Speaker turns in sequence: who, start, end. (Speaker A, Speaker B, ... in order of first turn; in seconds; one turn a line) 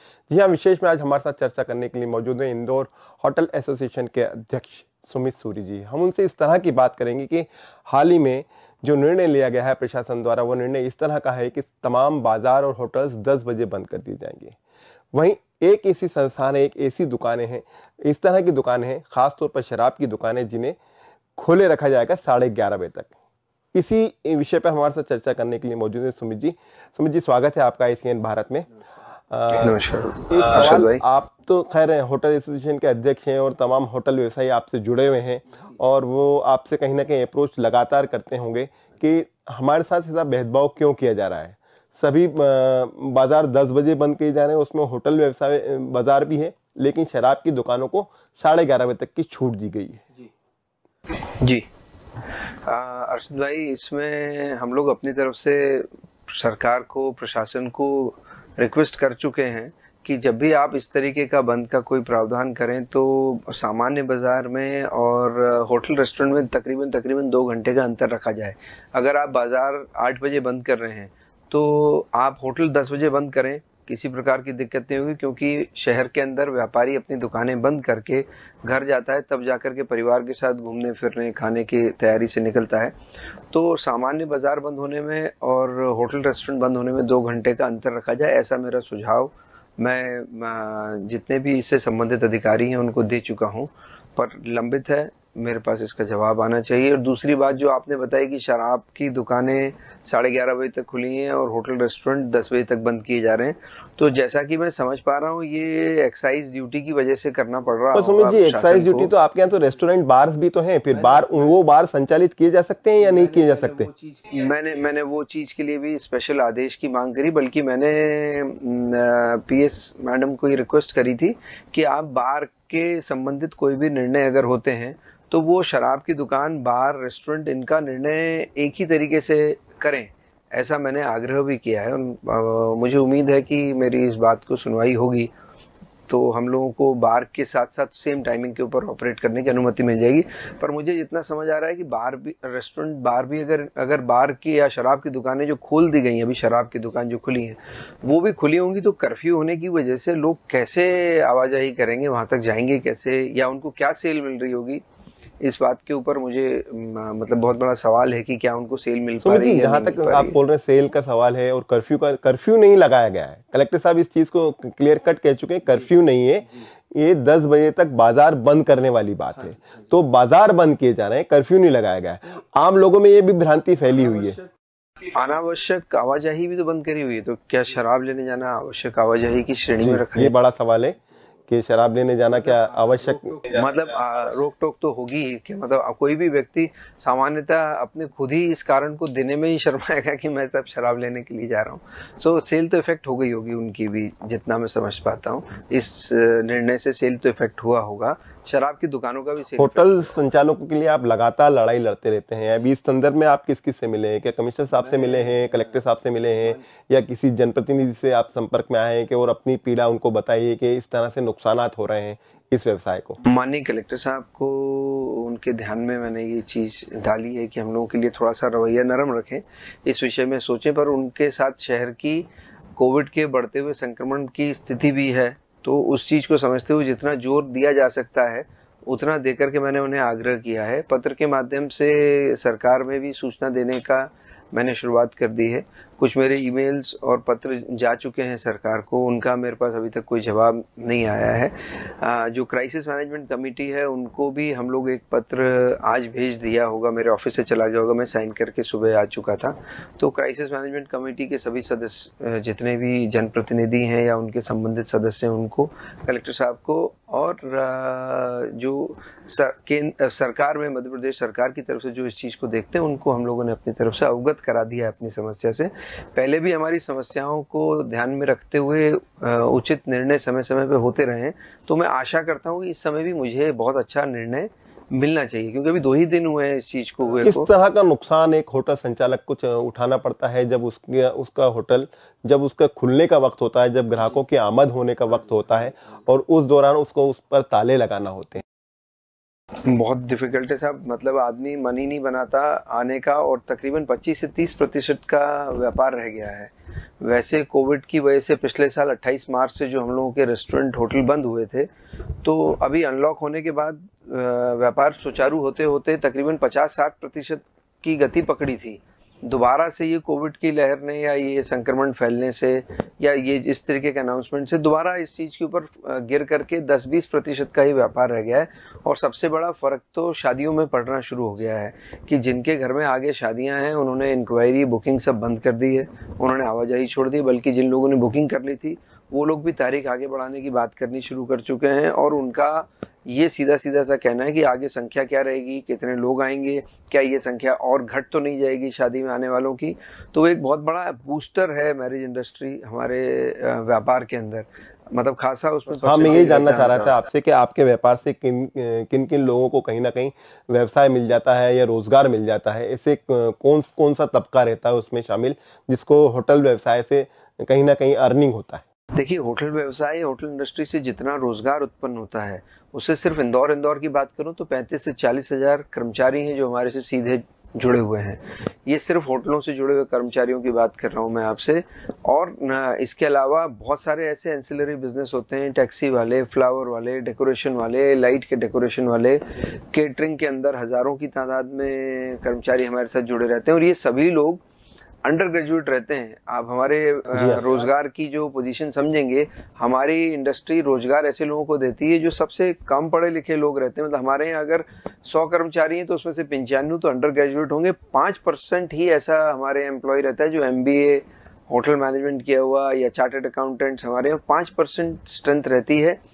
Speaker A: 0.3-14.6
Speaker A: 15.1-20.8
Speaker A: 21.4-23.1
Speaker A: 23.7-28.8
Speaker A: 29.3-29.8
Speaker B: 29.6-31.0
Speaker A: 30.3-50.0
Speaker B: 51.3-51.6
Speaker B: 52.3-83.0
Speaker B: 83.5-109.1
Speaker A: 107.9-113.9
Speaker B: 114.3-135.3
Speaker B: 136.1-154.8
Speaker B: 155.4-160.4
Speaker A: 159.2-174.4
Speaker B: 175.1-180.3
Speaker A: 179.8-183.4
Speaker B: 183.5-200.2
Speaker A: 199.6-213.2
Speaker B: 213.2-277.5
Speaker A: 277.2-288.4
Speaker B: 289.6-347.0
Speaker A: 345.8-358.6
Speaker B: 358.9-384.4
Speaker B: 385.1-406.0
Speaker A: 387.1-387.4